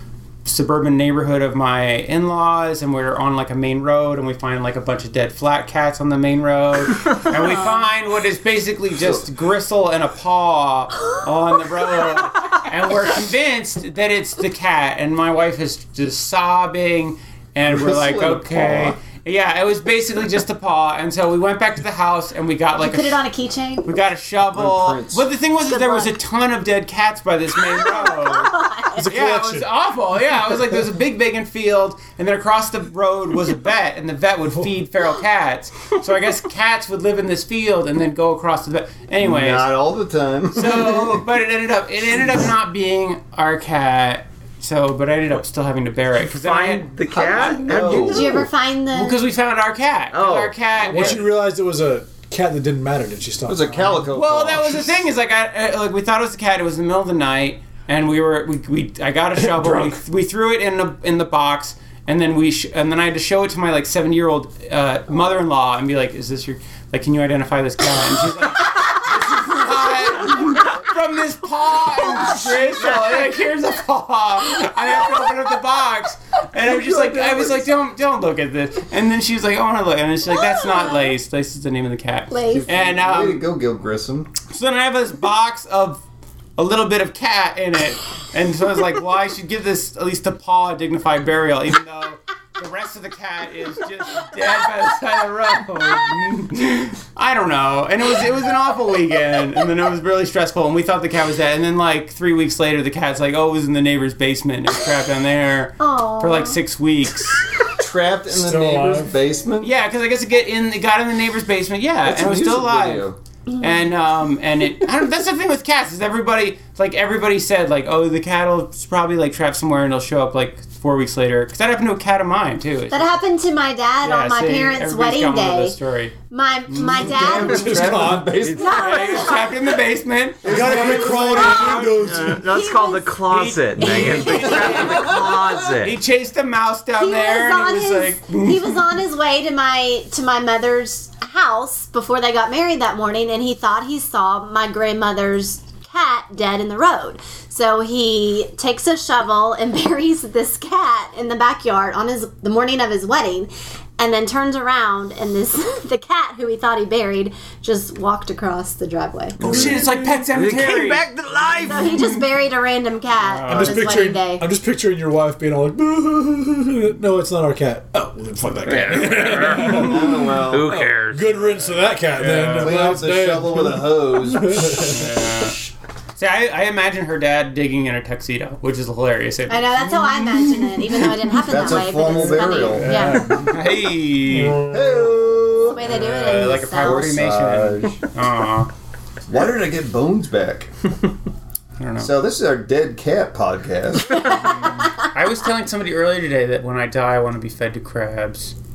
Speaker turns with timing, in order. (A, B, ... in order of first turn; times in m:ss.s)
0:00.4-0:23.2 A
0:07.3-0:07.8 B
0:17.6-0:19.0 C
0:22.8-0:23.9 B
0:23.8-0:39.7 A
0:24.5-0:25.3 C
0:25.6-0:26.1 B
0:27.7-0:29.0 B
0:29.0-0:29.7 D
0:39.2-0:41.2 C
0:40.5-0:46.9 A
0:46.4-0:48.5 E
0:47.1-0:48.5 C
0:47.8-0:49.2 B
0:48.9-0:51.3 A
0:50.1-0:51.2 E
0:50.8-0:54.0 D
0:53.5-0:54.8 C
0:54.1-1:23.5 A
0:59.4-1:00.0 D
1:12.2-1:13.3 C
1:16.6-1:17.7 C
1:20.3-1:21.1 B
1:22.3-1:22.7 B
1:22.5-1:24.3 C
1:24.5-1:26.0 A
1:26.6-1:47.6 A
1:45.8-1:46.6 B
1:47.8-1:49.7 C
1:48.3-1:49.1 D
1:49.6-1:53.0 A
1:52.0-1:53.2 C
1:53.5-1:53.8 B
1:53.6-2:03.2 A
2:02.9-2:05.8 B
2:04.0-2:06.1 A
2:06.3-2:07.9 B
2:06.7-2:07.1 A
2:06.9-2:09.0 C
2:07.2-2:08.4 D
2:08.4-2:12.2 A
2:08.4-2:09.6 B
2:10.4-2:11.9 C
2:10.4-2:12.5 D
2:12.0-2:16.0 E
2:12.3-2:13.2 B
2:13.3-2:18.8 A
2:13.8-2:14.8 B
2:14.5-2:15.3 C
2:17.0-2:39.4 B
2:39.4-2:39.7 C
2:39.4-2:40.2 D
2:39.4-2:41.1 A
2:40.3-2:41.9 E
2:41.6-2:44.4 B
2:43.2-2:43.9 A
2:43.5-2:55.1 D
2:48.7-2:49.9 E
2:48.7-2:50.1 A
2:49.6-2:50.7 C
2:50.5-2:51.3 E
2:52.1-2:52.9 A
2:52.5-2:55.5 C
2:54.8-2:55.6 A
2:56.2-3:01.4 A
2:59.5-3:03.4 B
3:01.4-3:03.1 C
3:02.6-3:04.7 A
3:02.9-3:03.5 D
3:04.3-3:05.2 D
3:04.6-3:08.1 C
3:05.7-3:07.2 B
3:05.8-3:08.7 A
3:09.3-3:10.7 C
3:11.8-3:12.1 A
3:12.0-3:14.5 C
3:14.4-3:18.5 A